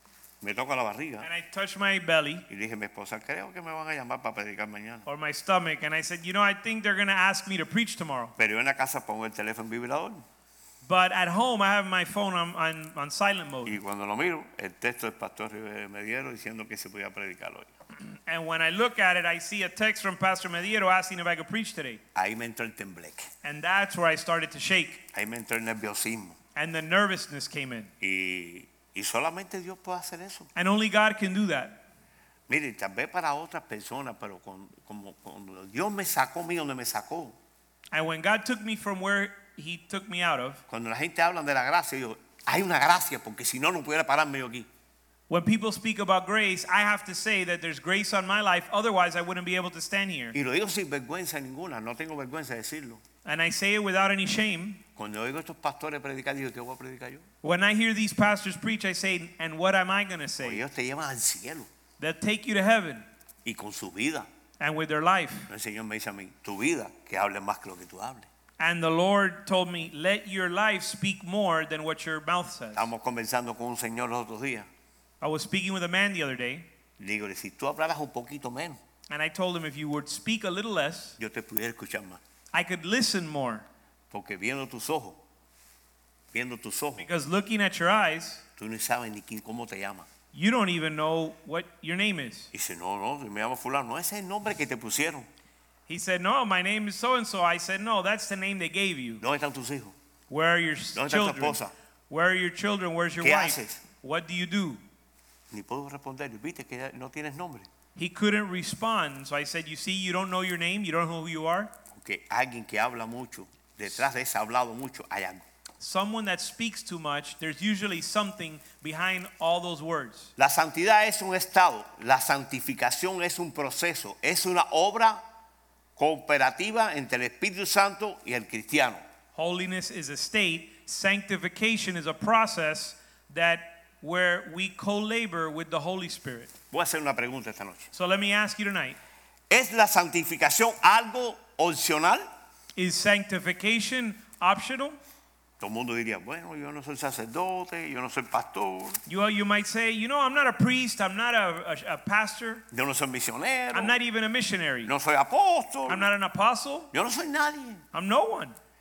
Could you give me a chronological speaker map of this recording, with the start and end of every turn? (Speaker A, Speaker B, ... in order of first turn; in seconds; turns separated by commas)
Speaker A: 0.4-1.3, Speaker B: 1.2-2.5, Speaker A: 2.5-5.0, Speaker B: 5.1-8.3, Speaker A: 8.4-10.2, Speaker B: 10.8-13.8, Speaker A: 13.7-17.7, Speaker B: 18.1-22.0, Speaker A: 22.1-23.3, Speaker B: 23.4-25.0, Speaker A: 25.1-26.4, Speaker B: 26.6-27.9, Speaker A: 28.0-30.5, Speaker B: 30.6-31.8, Speaker A: 32.5-37.4, Speaker B: 37.9-40.6, Speaker A: 40.7-44.7, Speaker B: 45.3-50.4, Speaker A: 50.3-53.0, Speaker B: 53.2-54.8, Speaker A: 55.0-57.2, Speaker B: 57.4-60.6, Speaker A: 60.4-61.7, Speaker B: 62.0-63.1, Speaker A: 63.5-64.3, Speaker B: 64.6-65.5, Speaker A: 65.5-68.3, Speaker B: 68.6-72.9, Speaker A: 72.8-74.7, Speaker B: 75.2-76.7, Speaker A: 77.0-78.8, Speaker B: 79.1-81.2, Speaker A: 81.2-82.2, Speaker B: 82.5-83.7, Speaker A: 84.1-85.2, Speaker A: 86.3-87.1, Speaker B: 87.0-88.4, Speaker A: 88.6-90.1, Speaker B: 90.3-92.5, Speaker A: 92.5-95.3, Speaker B: 95.9-99.2, Speaker A: 99.2-100.0, Speaker B: 100.3-104.8, Speaker A: 101.0-101.7, Speaker A: 103.2-103.8, Speaker A: 105.5-107.7, Speaker B: 108.0-111.7, Speaker A: 111.9-115.4, Speaker B: 115.8-120.3, Speaker A: 120.4-125.2, Speaker A: 126.0-129.0, Speaker B: 129.3-136.5, Speaker A: 136.7-137.9, Speaker B: 137.9-139.0, Speaker A: 139.5-142.2, Speaker B: 142.8-145.0, Speaker A: 145.6-149.0, Speaker B: 149.1-152.6, Speaker A: 152.7-154.0, Speaker B: 153.7-154.9, Speaker A: 154.8-156.1, Speaker B: 155.9-156.9, Speaker A: 156.9-157.8, Speaker B: 157.9-158.6